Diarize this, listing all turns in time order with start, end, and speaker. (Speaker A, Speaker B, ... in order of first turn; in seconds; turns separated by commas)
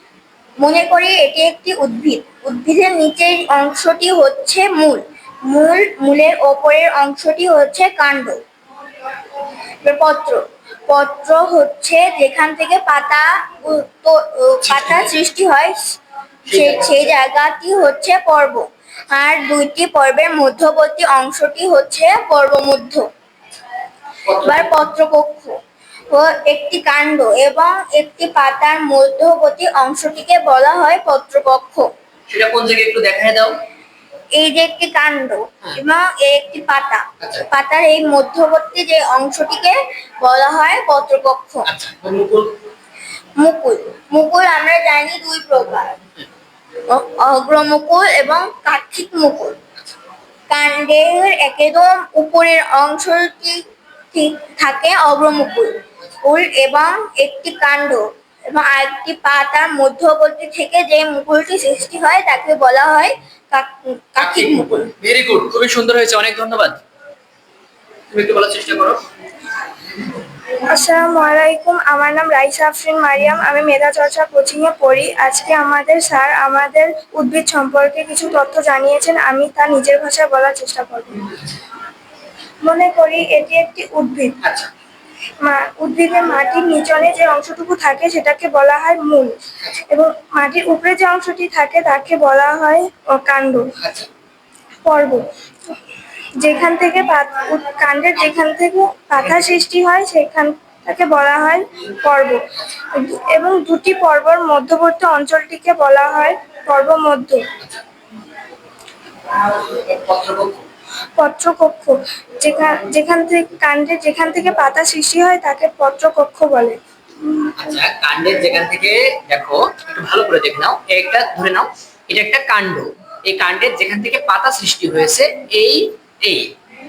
Speaker A: 0.6-8.4, Speaker A: 9.8-15.8, Speaker B: 14.7-15.1, Speaker B: 16.5-17.1, Speaker A: 16.5-23.0, Speaker B: 24.3-24.7, Speaker A: 24.4-25.6, Speaker A: 26.1-31.9, Speaker B: 32.3-33.6, Speaker A: 34.4-41.7, Speaker B: 41.7-42.5, Speaker A: 43.4-46.0, Speaker A: 46.9-49.6, Speaker A: 50.5-53.6, Speaker A: 54.1-55.7, Speaker A: 56.2-64.9, Speaker B: 64.2-66.8, Speaker B: 68.1-69.0, Speaker C: 70.7-81.3, Speaker C: 82.6-84.4, Speaker B: 84.4-84.7, Speaker C: 85.4-89.4, Speaker C: 89.9-93.7, Speaker B: 93.8-94.1, Speaker C: 94.8-95.3, Speaker C: 96.4-102.4, Speaker C: 102.9-107.4, Speaker B: 109.3-110.7, Speaker C: 111.2-116.8, Speaker B: 117.6-126.5